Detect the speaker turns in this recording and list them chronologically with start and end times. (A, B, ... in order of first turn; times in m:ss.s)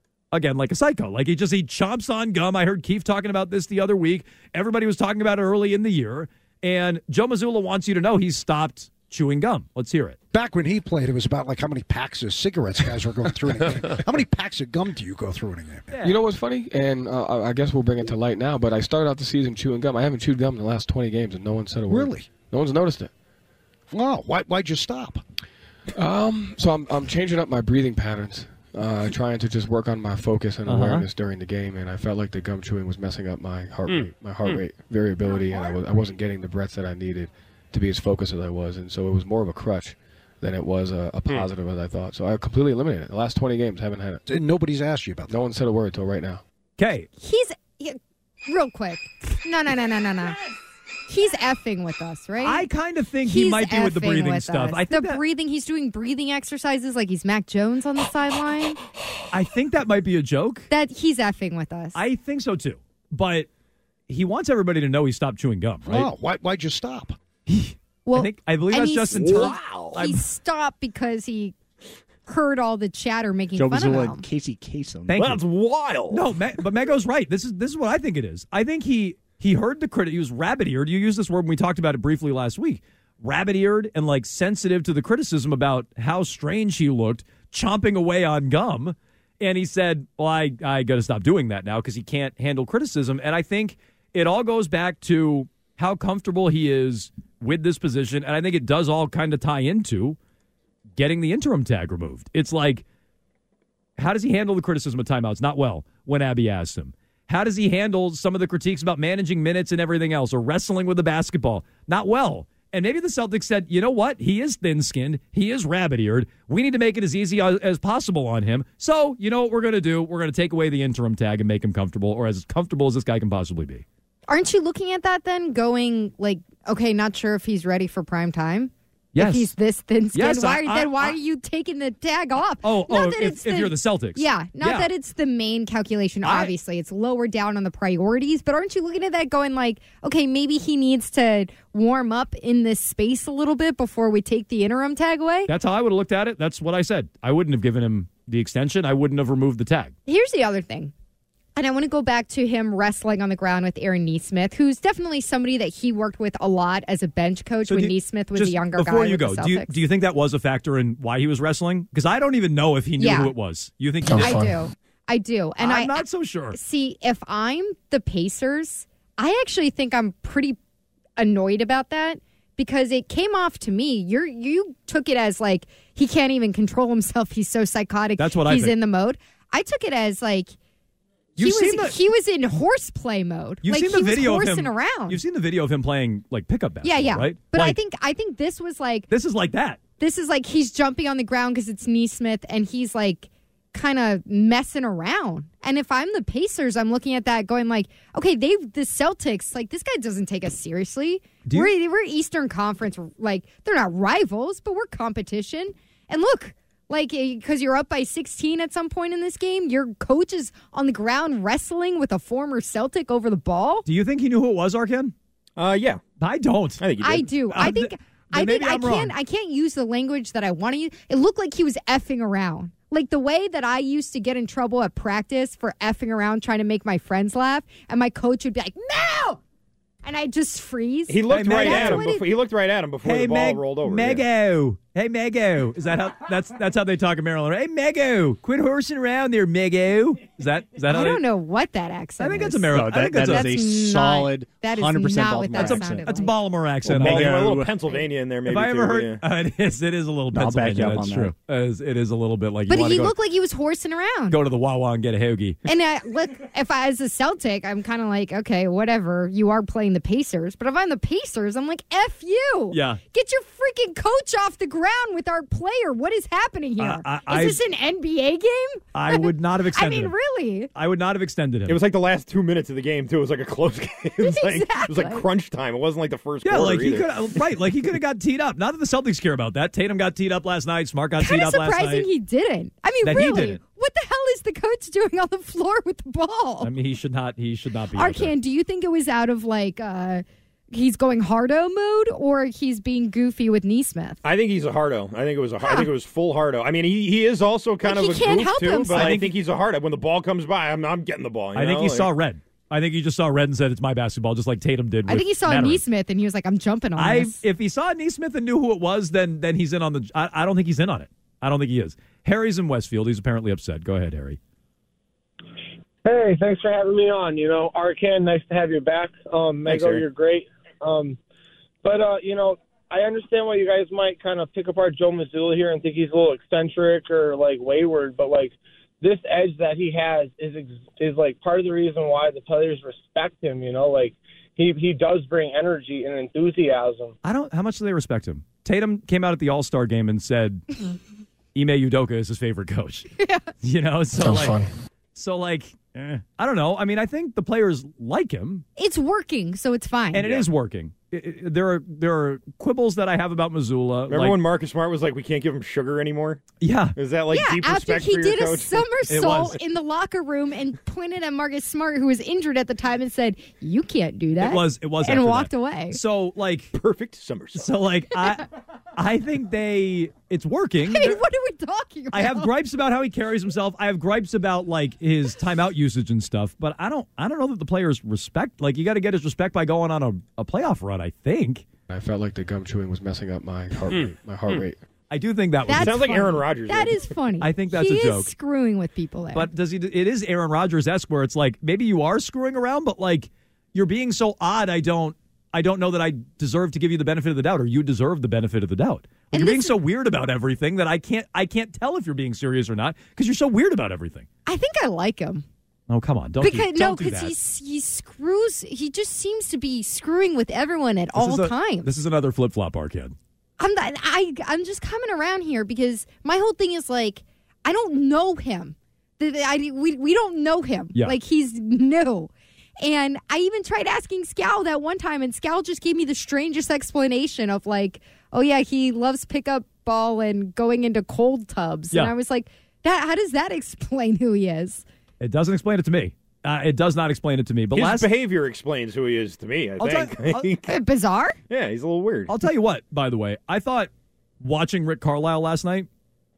0:00.3-0:10.2 A
0:10.3-0:15.9 B
0:15.9-0:16.2 A
0:16.0-0:23.1 C
0:21.9-0:22.3 B
0:23.9-0:25.2 B
0:26.0-0:44.4 C
0:30.7-0:31.0 A
0:44.3-0:45.4 B
0:45.3-0:46.4 C
0:46.8-0:47.1 A
0:47.2-0:50.4 D
0:51.1-0:52.6 D
0:52.4-0:55.2 A
0:53.2-0:58.8 D
0:59.3-1:00.7 A
1:00.7-1:02.0 D
1:01.9-1:03.5 A
1:04.1-1:06.1 A
1:05.8-1:07.2 B
1:07.5-1:10.2 A
1:08.0-1:11.5 D
1:09.1-1:10.0 E
1:12.3-1:14.2 D
1:13.6-1:15.2 F
1:15.1-1:15.4 A
1:15.2-1:16.3 E
1:16.1-1:40.2 A
1:41.0-1:42.8 A
1:44.0-2:03.8 A
2:04.3-2:25.5 D
2:09.1-2:09.5 A
2:10.1-2:11.2 A
2:12.6-2:14.9 A
2:16.2-2:16.5 A
2:25.5-2:29.9 A
2:30.0-2:30.9 D
2:31.5-2:39.7 D
2:37.7-2:44.4 A
2:43.0-2:43.3 D
2:44.0-2:44.6 C
2:44.2-2:46.0 D
2:45.6-2:46.6 A
2:46.5-2:50.6 D
2:51.2-3:00.5 D
2:58.2-2:58.8 A
3:01.4-3:02.0 A
3:01.4-3:05.2 D
3:03.6-3:07.8 A
3:06.8-3:09.1 D
3:09.1-3:09.8 A
3:10.0-3:33.8 D
3:33.8-3:35.1 A
3:35.6-3:36.0 E
3:36.2-3:36.8 A
3:36.8-3:37.3 E
3:37.0-3:49.4 D
3:37.4-3:39.1 A
3:50.0-3:52.3 D
3:51.1-3:54.2 E
3:51.3-3:52.1 A
3:53.0-4:01.2 A
4:00.9-4:02.6 D
4:02.2-4:03.6 A
4:02.7-4:06.2 F
4:03.2-4:06.4 D
4:05.5-4:07.5 A
4:06.8-4:08.1 F
4:07.0-4:09.2 E
4:08.4-4:13.1 A
4:10.3-4:11.3 F
4:12.7-4:14.4 D
4:14.3-4:15.6 A
4:15.7-4:30.7 D
4:22.7-4:23.0 A
4:26.8-4:27.6 A
4:28.9-4:30.2 A
4:30.7-4:31.8 A
4:31.7-4:37.1 E
4:34.2-4:35.2 D
4:36.4-4:42.1 A
4:41.2-4:46.7 D
4:43.0-4:43.6 A
4:46.6-4:48.3 A
4:47.9-4:54.2 D
4:54.2-5:02.1 E
4:55.6-4:55.9 D
4:57.8-4:59.2 D
4:58.9-4:59.3 A
5:01.5-5:05.8 A
5:05.0-5:07.4 D
5:07.0-5:14.4 A
5:16.0-5:21.2 G
5:19.6-5:20.0 E
5:21.8-5:37.1 G
5:37.2-5:40.8 A
5:41.5-5:44.6 A
5:43.2-5:43.5 D
5:44.2-5:44.7 C
5:45.1-5:48.6 A
5:48.8-5:50.2 D
5:50.1-5:54.4 A
5:50.1-5:50.5 E
5:54.1-5:56.4 E
5:56.6-5:57.0 A
5:57.0-5:59.1 E
5:57.3-6:06.0 D
5:59.1-5:59.6 A
6:04.4-6:06.7 A
6:06.7-6:07.7 E
6:07.5-6:11.2 A
6:10.9-6:12.5 D
6:12.1-6:21.6 A
6:21.9-6:24.8 C
6:25.1-6:26.2 A
6:25.7-6:29.5 D
6:25.7-6:27.0 E
6:27.4-6:28.3 A
6:29.3-6:44.3 A
6:39.3-6:39.8 D
6:44.4-6:45.4 D
6:45.9-6:47.3 A
6:46.4-6:51.9 D
6:51.1-6:53.1 A
6:53.6-7:02.3 D
7:02.8-7:14.8 D
7:15.2-7:18.1 A
7:17.7-7:20.7 E
7:19.8-7:20.5 A
7:20.7-7:21.4 D
7:21.5-7:22.3 E
7:22.3-7:23.9 A
7:24.4-7:25.9 A